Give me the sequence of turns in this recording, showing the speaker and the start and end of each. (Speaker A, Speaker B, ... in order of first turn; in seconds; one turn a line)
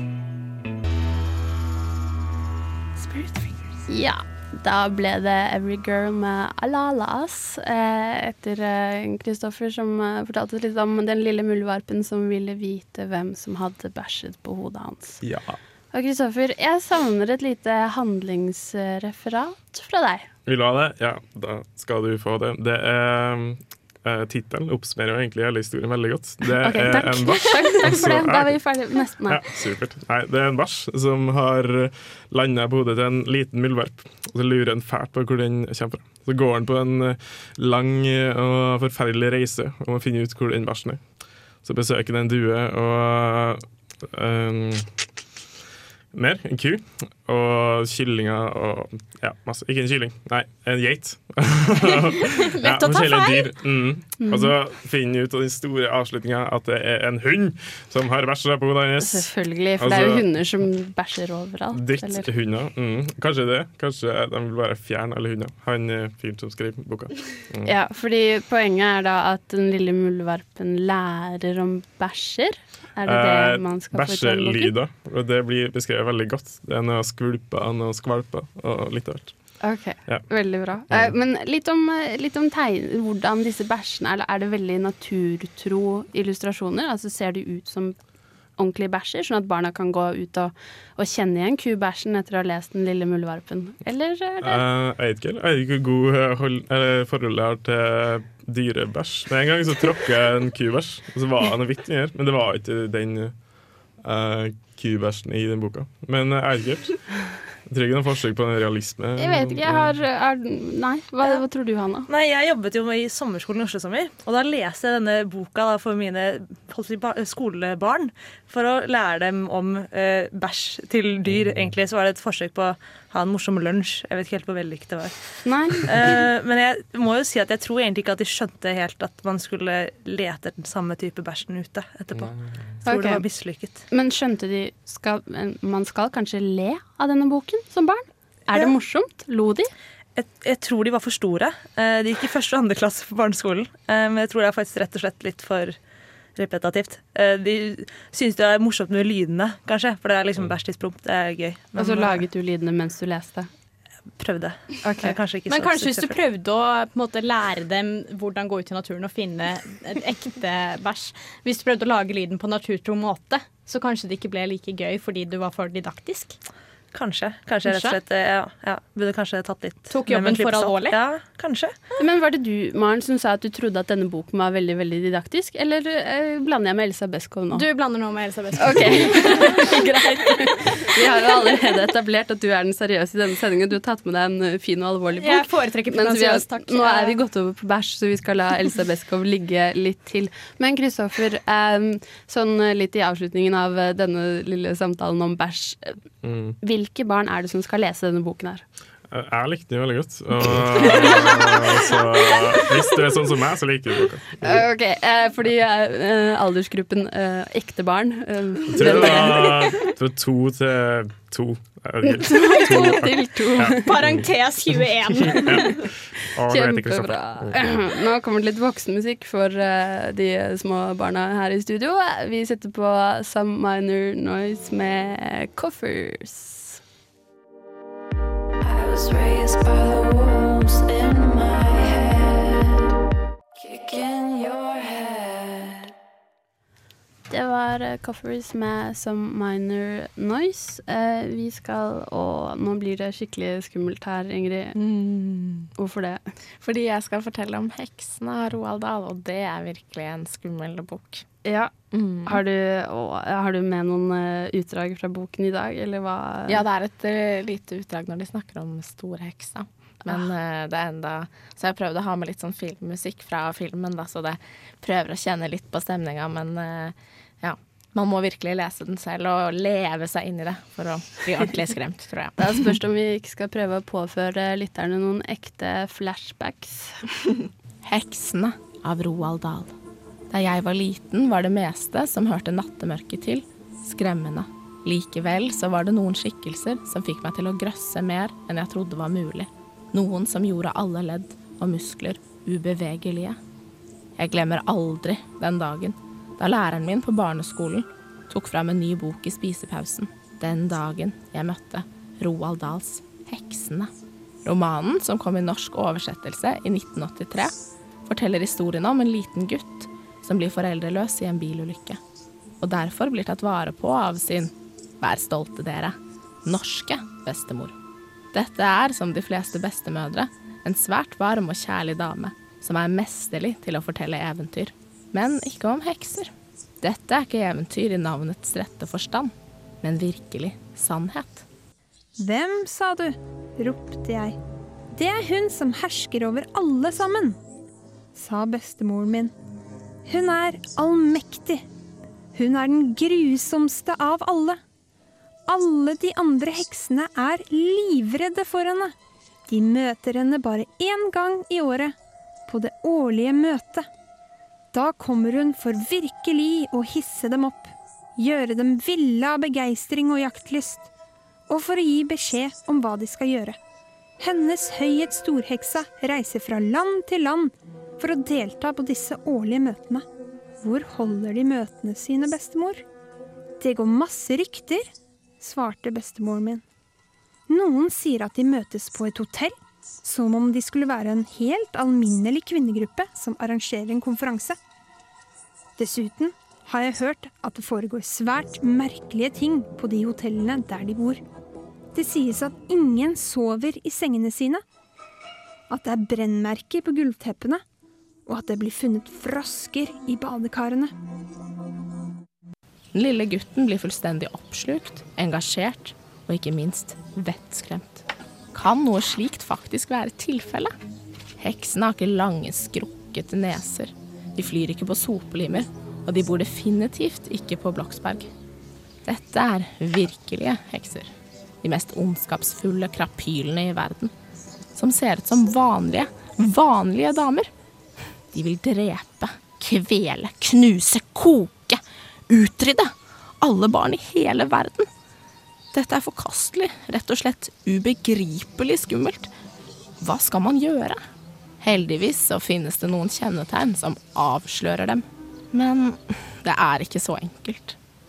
Speaker A: 3.9-15.2
Speaker B: 15.2-15.6
Speaker A: 15.9-20.3
Speaker B: 20.4-28.6
Speaker A: 26.6-29.4
Speaker B: 29.2-41.0
Speaker B: 41.6-45.0
Speaker B: 46.1-60.2
Speaker C: 52.3-53.5
Speaker A: 54.2-54.5
Speaker A: 59.0-62.3
Speaker B: 61.7-67.7
Speaker A: 67.7-74.7
Speaker B: 73.0-79.3
Speaker A: 79.6-88.0
Speaker A: 88.6-94.6
Speaker B: 94.4-103.4
Speaker B: 104.0-107.0
Speaker B: 107.7-109.9
Speaker A: 109.2-112.1
Speaker D: 112.1-133.8
Speaker A: 125.4-126.1
Speaker A: 132.8-133.3
Speaker A: 133.9-139.7
Speaker D: 140.2-145.8
Speaker D: 146.3-152.2
Speaker A: 151.8-153.5
Speaker D: 154.2-156.2
Speaker A: 154.8-155.2
Speaker C: 155.5-166.3
Speaker D: 166.9-171.7
Speaker C: 167.6-168.0
Speaker C: 169.9-171.0
Speaker A: 172.0-177.7
Speaker C: 177.5-179.8
Speaker A: 178.6-195.9
Speaker C: 185.2-187.2
Speaker B: 196.2-196.6
Speaker A: 196.6-198.6
Speaker B: 199.1-204.6
Speaker A: 200.8-202.9
Speaker A: 204.4-209.9
Speaker B: 208.7-214.3
Speaker A: 212.0-214.0
Speaker C: 213.7-215.8
Speaker B: 215.2-217.6
Speaker A: 216.5-226.8
Speaker A: 228.6-232.9
Speaker A: 233.6-235.9
Speaker A: 237.3-244.8
Speaker E: 244.7-245.7
Speaker A: 245.8-246.3
Speaker E: 246.6-251.2
Speaker A: 251.4-256.6
Speaker E: 251.9-252.4
Speaker E: 256.5-272.8
Speaker A: 272.4-277.0
Speaker E: 277.8-279.7
Speaker E: 280.3-293.4
Speaker E: 294.2-303.9
Speaker E: 304.4-307.5
Speaker E: 308.1-312.0
Speaker E: 312.6-317.8
Speaker E: 318.3-331.4
Speaker F: 332.2-334.4
Speaker F: 334.9-337.4
Speaker F: 338.1-339.3
Speaker F: 340.1-341.6
Speaker F: 342.3-344.6
Speaker F: 345.5-348.9
Speaker F: 349.5-351.9
Speaker F: 352.5-353.9
Speaker F: 354.7-360.9
Speaker F: 361.5-363.6
Speaker F: 364.2-370.0
Speaker F: 370.6-372.8
Speaker F: 373.6-374.9
Speaker F: 375.4-376.6
Speaker F: 377.5-384.6
Speaker F: 385.8-391.2
Speaker F: 391.9-394.6
Speaker F: 395.7-397.6
Speaker F: 398.3-400.9
Speaker E: 402.9-410.7
Speaker E: 411.4-418.3
Speaker E: 419.0-421.1
Speaker E: 421.6-424.1
Speaker E: 424.7-427.5
Speaker E: 428.3-434.9
Speaker E: 435.7-439.3
Speaker E: 440.0-441.0
Speaker E: 441.6-447.8